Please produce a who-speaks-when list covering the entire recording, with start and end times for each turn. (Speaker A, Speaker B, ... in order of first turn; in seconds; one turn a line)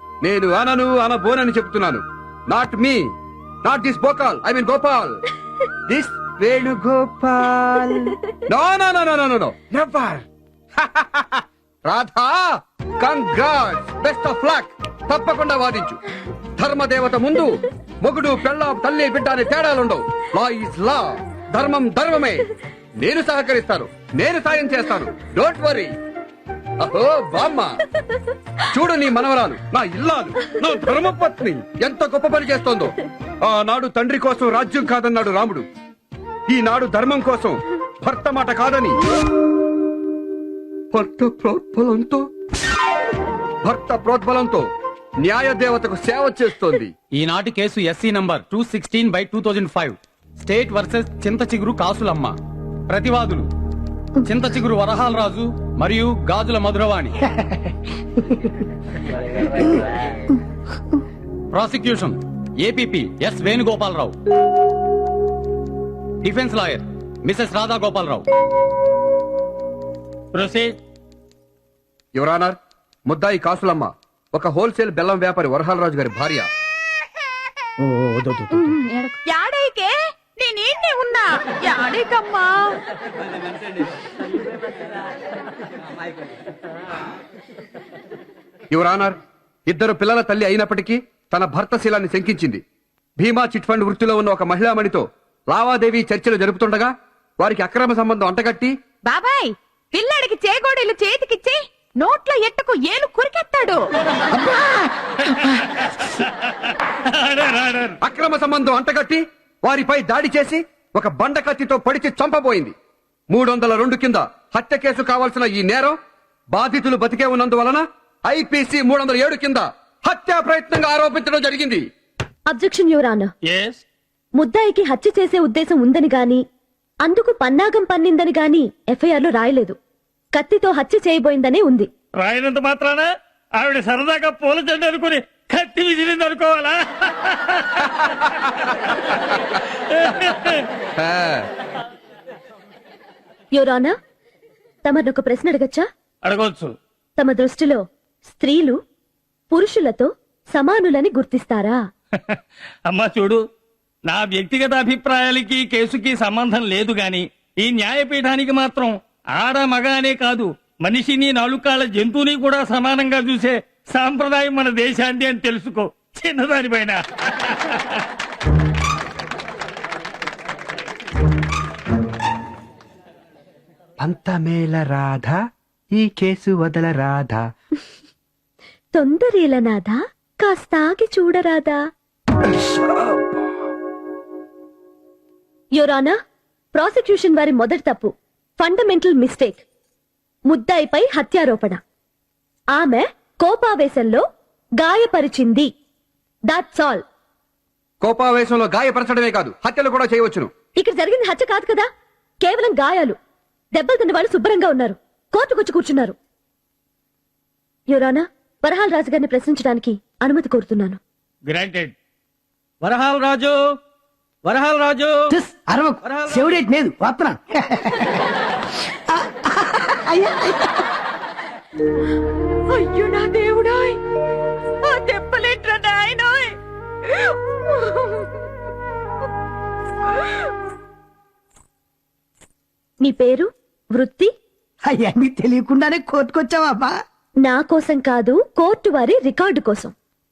Speaker A: 0.2-3.0
Speaker A: 3.6-5.2
Speaker A: 5.9-10.2
Speaker A: 10.8-12.4
Speaker A: 13.0-16.0
Speaker A: 16.6-22.5
Speaker A: 23.0-25.9
Speaker A: 26.8-27.7
Speaker B: 28.1-28.4
Speaker A: 28.6-35.6
Speaker A: 36.5-39.0
Speaker A: 40.9-42.2
Speaker A: 43.6-44.6
Speaker A: 45.2-46.9
Speaker C: 47.1-52.4
Speaker C: 52.9-53.5
Speaker C: 54.2-57.1
Speaker D: 57.4-57.7
Speaker C: 61.5-64.1
Speaker C: 66.2-68.2
Speaker E: 70.3-70.7
Speaker A: 72.1-72.5
Speaker A: 73.1-76.5
Speaker D: 77.9-78.6
Speaker F: 79.3-82.5
Speaker A: 88.7-89.2
Speaker A: 89.7-92.6
Speaker A: 93.2-98.7
Speaker F: 99.1-103.7
Speaker E: 105.2-108.0
Speaker A: 108.0-112.7
Speaker A: 113.3-116.0
Speaker A: 116.5-121.8
Speaker B: 122.5-123.3
Speaker E: 123.5-123.8
Speaker B: 124.4-126.4
Speaker B: 127.0-129.8
Speaker B: 130.3-131.9
Speaker E: 132.2-138.0
Speaker E: 139.9-140.7
Speaker A: 140.9-141.4
Speaker B: 143.5-143.9
Speaker B: 144.8-145.8
Speaker E: 146.2-146.7
Speaker B: 147.2-148.8
Speaker B: 149.5-151.8
Speaker E: 152.2-153.4
Speaker E: 154.1-168.0
Speaker A: 174.0-175.4
Speaker A: 175.9-177.4
Speaker B: 178.9-181.8
Speaker A: 182.6-183.2
Speaker B: 185.8-186.2
Speaker B: 186.7-189.6
Speaker B: 190.5-191.8
Speaker B: 192.7-194.2
Speaker B: 194.8-195.7
Speaker B: 196.5-197.0
Speaker A: 198.0-200.5
Speaker B: 200.8-201.9
Speaker B: 202.4-203.2
Speaker B: 203.7-206.2
Speaker B: 207.9-211.0
Speaker E: 211.5-211.9
Speaker E: 212.8-213.6
Speaker E: 214.4-215.3
Speaker D: 215.3-218.4
Speaker E: 216.1-216.4
Speaker D: 218.9-220.9
Speaker F: 224.9-226.5
Speaker B: 233.0-234.3
Speaker D: 234.9-236.9
Speaker B: 237.4-239.9